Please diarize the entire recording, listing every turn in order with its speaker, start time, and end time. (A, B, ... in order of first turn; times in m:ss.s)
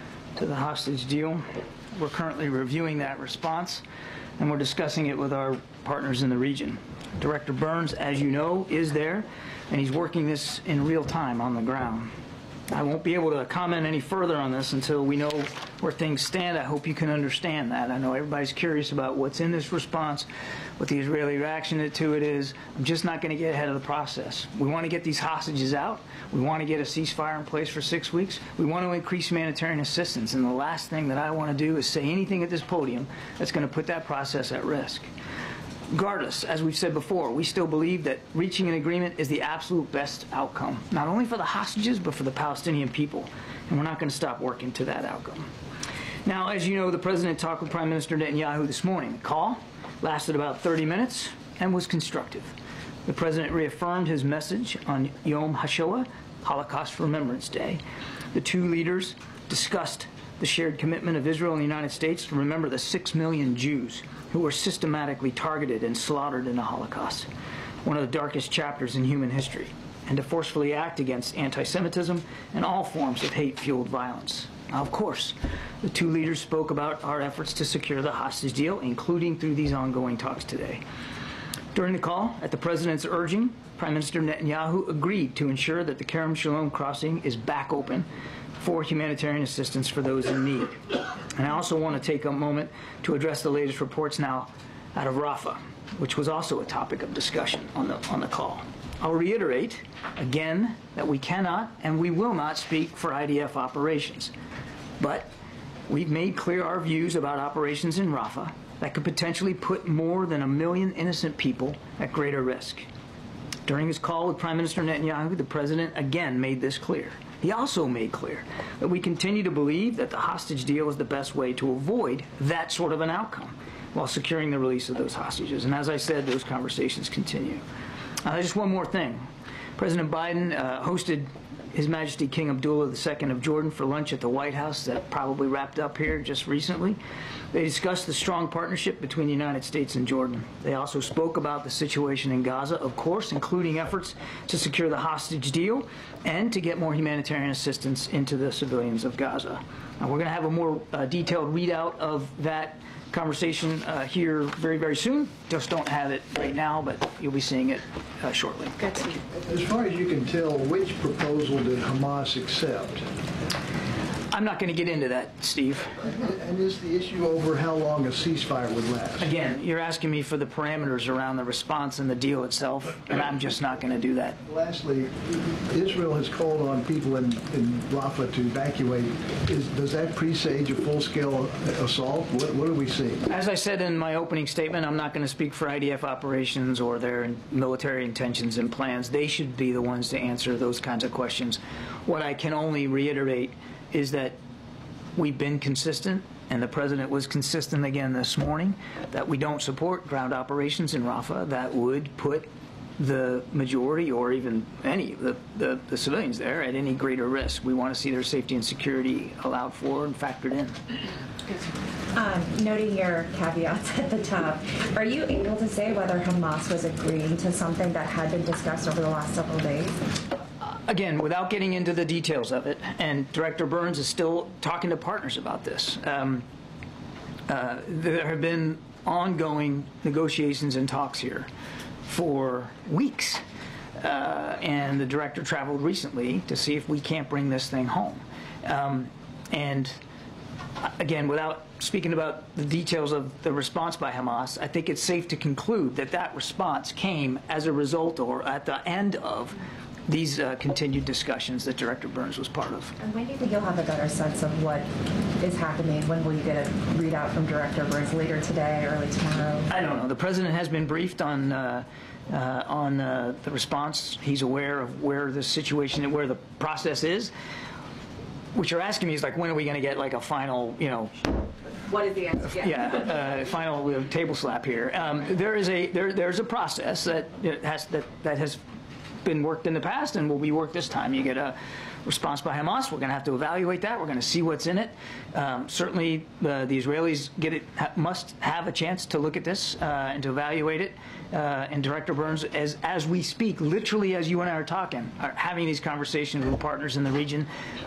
0:00.4-0:03.8 A
0:04.4-0:12.1 A
0:12.7-0:20.3 A
0:20.8-0:35.1 A
0:35.9-0:45.5 A
0:46.2-0:52.5 A
0:53.0-0:57.8 A
0:58.3-1:07.3 A
1:07.8-1:20.8 A
1:21.7-1:30.8 A
1:31.3-1:44.3 A
1:45.0-1:45.3 A
1:45.9-1:52.8 A
1:53.7-2:07.6 A
2:08.2-2:09.2 A
2:09.8-2:17.0 A
2:17.5-2:39.1 A
2:39.3-2:43.0 B
2:44.3-2:46.0 A
2:46.0-2:49.3 B
2:49.2-2:54.4 A
2:54.4-3:03.3 B
3:03.3-3:14.4 A
3:15.2-3:30.8 A
3:32.1-3:40.0 C
3:40.6-3:46.4 A
3:47.5-3:51.5 A
3:52.0-3:53.4 A
3:54.0-4:00.0 A
4:00.8-4:13.0 A
4:13.0-4:14.9 C
4:15.4-4:19.7 C
4:19.7-4:27.3 A
4:28.5-4:31.1 A
4:31.9-4:32.3 C
4:32.4-4:38.6 A
4:39.2-4:57.5 A